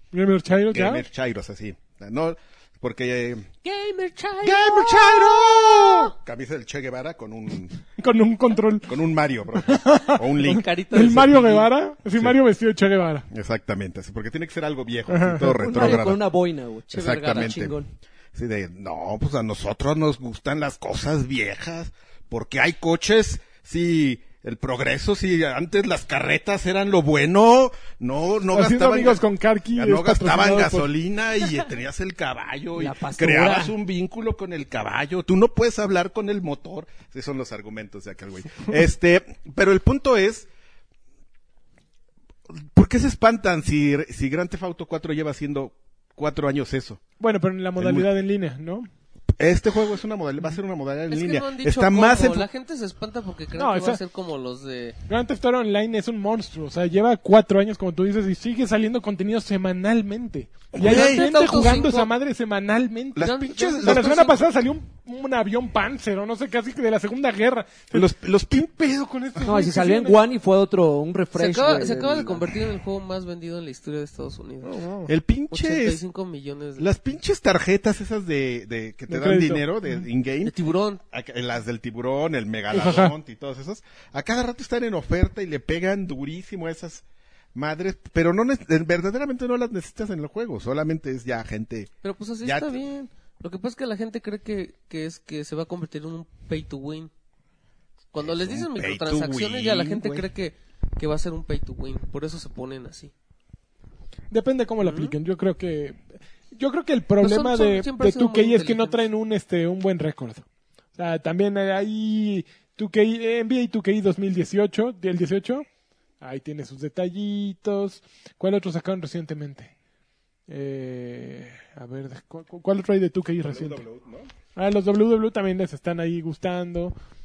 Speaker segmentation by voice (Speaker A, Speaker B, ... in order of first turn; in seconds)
Speaker A: 0.1-1.0, 8.0-8.9, 9.6-13.3, 15.1-15.7, 28.5-30.9, 47.2-48.9, 53.6-54.0, 55.1-70.2, 74.6-75.1, 79.1-79.7, 82.7-83.2, 104.3-110.5, 111.0-115.7, 116.2-119.7, 120.5-123.8, 124.5-126.9
Speaker B: 0.7-3.5, 4.4-7.8, 8.9-10.7, 13.3-16.2, 16.9-17.8, 18.3-29.2, 29.7-40.5, 42.5-47.0, 47.8-48.1, 49.4-52.5, 60.7-61.3, 63.1-64.3, 67.9-68.8, 75.1-76.0, 76.8-80.5, 81.1-87.0, 87.5-91.9, 92.4-92.8, 98.2-100.3, 123.4-124.3
Speaker C: 3.6-6.1, 10.4-11.7, 16.9-17.6, 51.1-55.0, 60.8-62.1, 63.2-64.4, 71.3-74.8, 75.5-76.9, 80.5-81.0, 92.0-97.1, 98.1-103.1, 104.8-105.1, 107.2-109.0
Speaker D: 15.6-17.9, 32.8-33.8, 69.4-72.5